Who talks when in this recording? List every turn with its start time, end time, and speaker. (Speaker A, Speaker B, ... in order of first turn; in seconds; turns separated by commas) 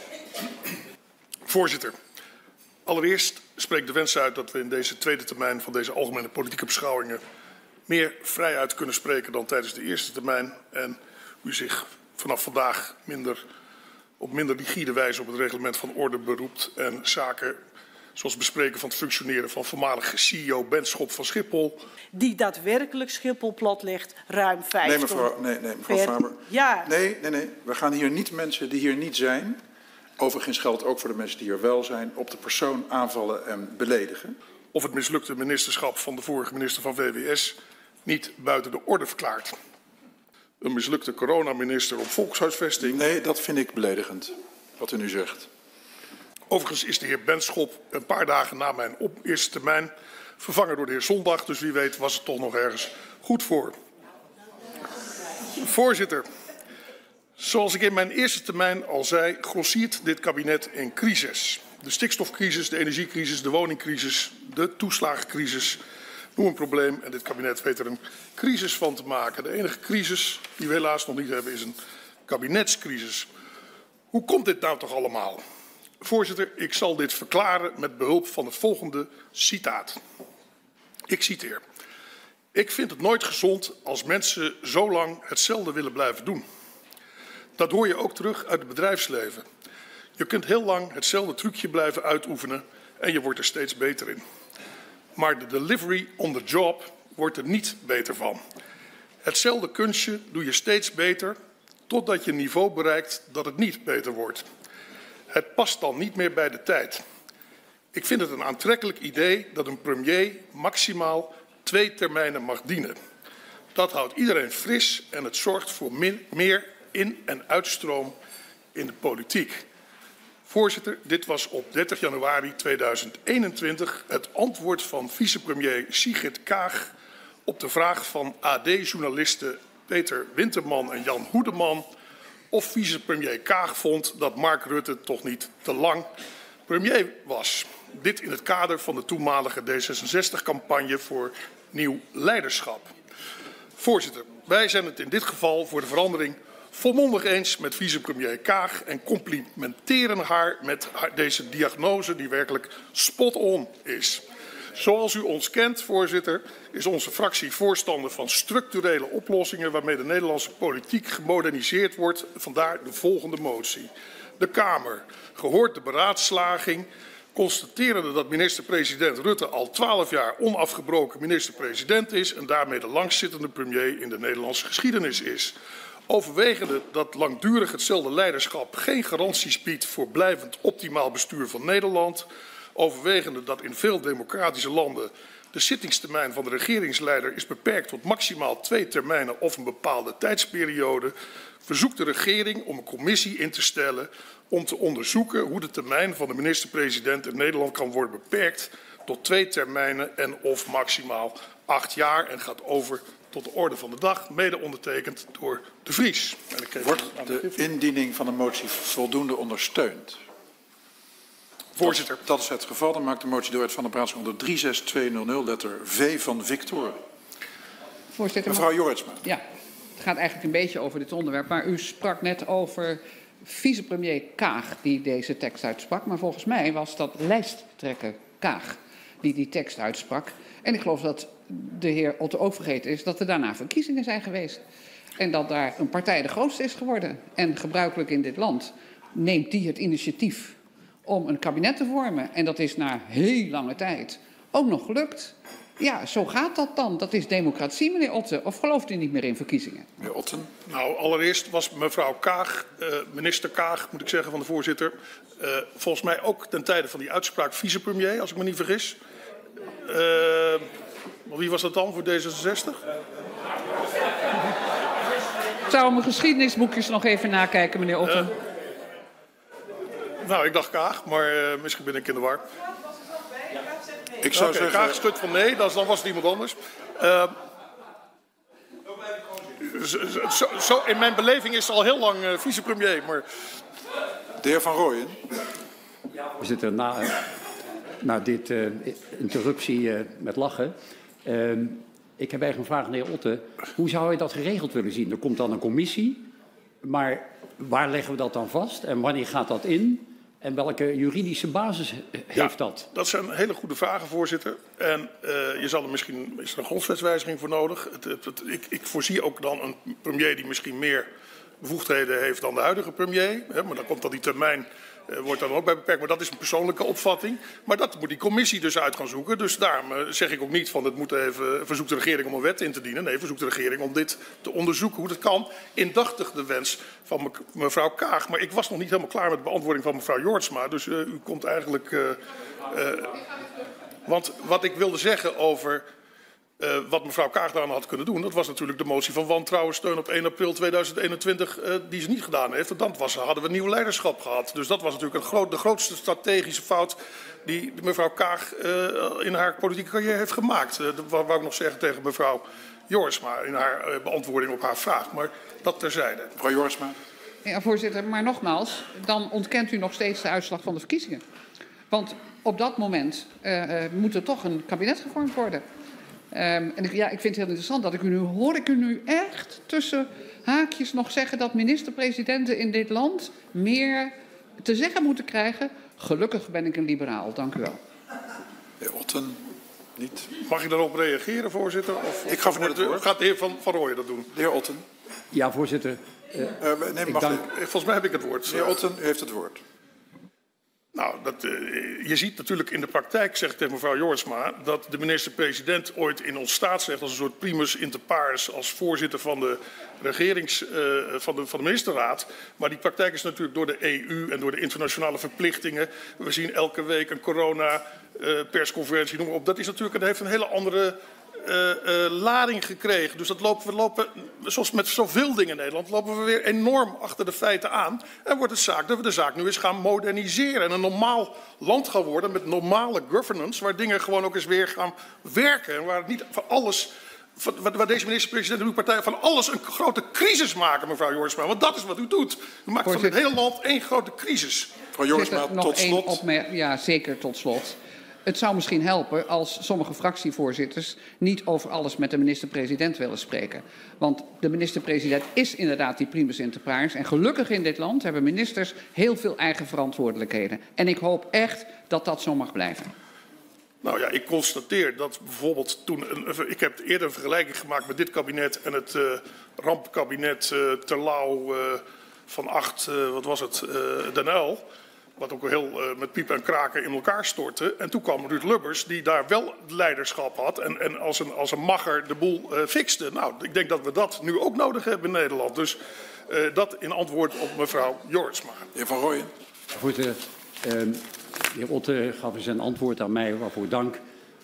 Speaker A: 1.4-1.9, Speaker A: 2.8-7.2, Speaker A: 7.9-13.4, Speaker A: 14.2-17.6, Speaker A: 18.1-21.8, Speaker B: 22.1-25.3, Speaker C: 24.8-29.6, Speaker B: 25.9-26.9, Speaker C: 30.2-34.4, Speaker A: 34.7-39.5, Speaker A: 40.6-43.0, Speaker C: 42.8-45.5, Speaker A: 46.5-53.7, Speaker A: 55.5-56.2, Speaker A: 57.4-65.8, Speaker A: 66.3-73.3, Speaker A: 74.1-75.4, Speaker A: 76.0-80.0, Speaker A: 81.1-81.6, Speaker A: 82.5-86.4, Speaker A: 87.6-89.4, Speaker A: 90.2-94.2, Speaker A: 95.1-98.4, Speaker A: 99.2-101.3, Speaker A: 101.9-104.5, Speaker A: 105.3-107.0, Speaker A: 107.9-113.0, Speaker A: 113.7-118.1, Speaker A: 118.7-119.7, Speaker A: 120.5-126.9, Speaker A: 127.5-131.8, Speaker A: 132.5-136.1, Speaker A: 136.7-142.9, Speaker A: 143.8-175.5, Speaker A: 176.1-191.1, Speaker A: 191.7-207.7, Speaker C: 206.8-210.2, Speaker A: 211.8-212.2, Speaker C: 211.8-217.0, Speaker D: 218.1-218.7, Speaker C: 218.4-219.2, Speaker D: 220.0-234.6, Speaker D: 235.2-249.9, Speaker C: 250.0-250.5, Speaker A: 250.7-259.0, Speaker A: 259.8-260.7, Speaker A: 261.3-262.8, Speaker D: 265.7-268.3, Speaker A: 268.0-268.3, Speaker A: 270.2-272.4, Speaker C: 274.2-275.0, Speaker A: 274.3-277.3, Speaker A: 279.6-283.2, Speaker C: 284.4-285.2, Speaker E: 286.4-287.2, Speaker E: 288.0-290.7, Speaker E: 291.2-296.2, Speaker E: 296.8-302.9, Speaker A: 302.4-311.1, Speaker A: 311.6-333.2, Speaker A: 334.1-335.8, Speaker A: 336.6-356.3, Speaker C: 356.4-357.0, Speaker D: 357.4-361.2, Speaker D: 361.9-365.6, Speaker D: 366.3-377.8, Speaker C: 378.8-379.4, Speaker C: 379.9-380.3, Speaker A: 380.4-384.3, Speaker C: 382.3-383.0, Speaker C: 384.3-384.8, Speaker E: 385.3-387.4, Speaker C: 386.6-387.5, Speaker A: 387.5-388.8, Speaker C: 388.5-389.6, Speaker A: 390.9-434.7, Speaker D: 432.8-433.1, Speaker C: 434.9-436.2, Speaker D: 435.1-452.9, Speaker A: 453.8-464.6, Speaker A: 465.2-478.7, Speaker C: 478.7-479.3, Speaker E: 479.7-481.0, Speaker E: 481.5-484.0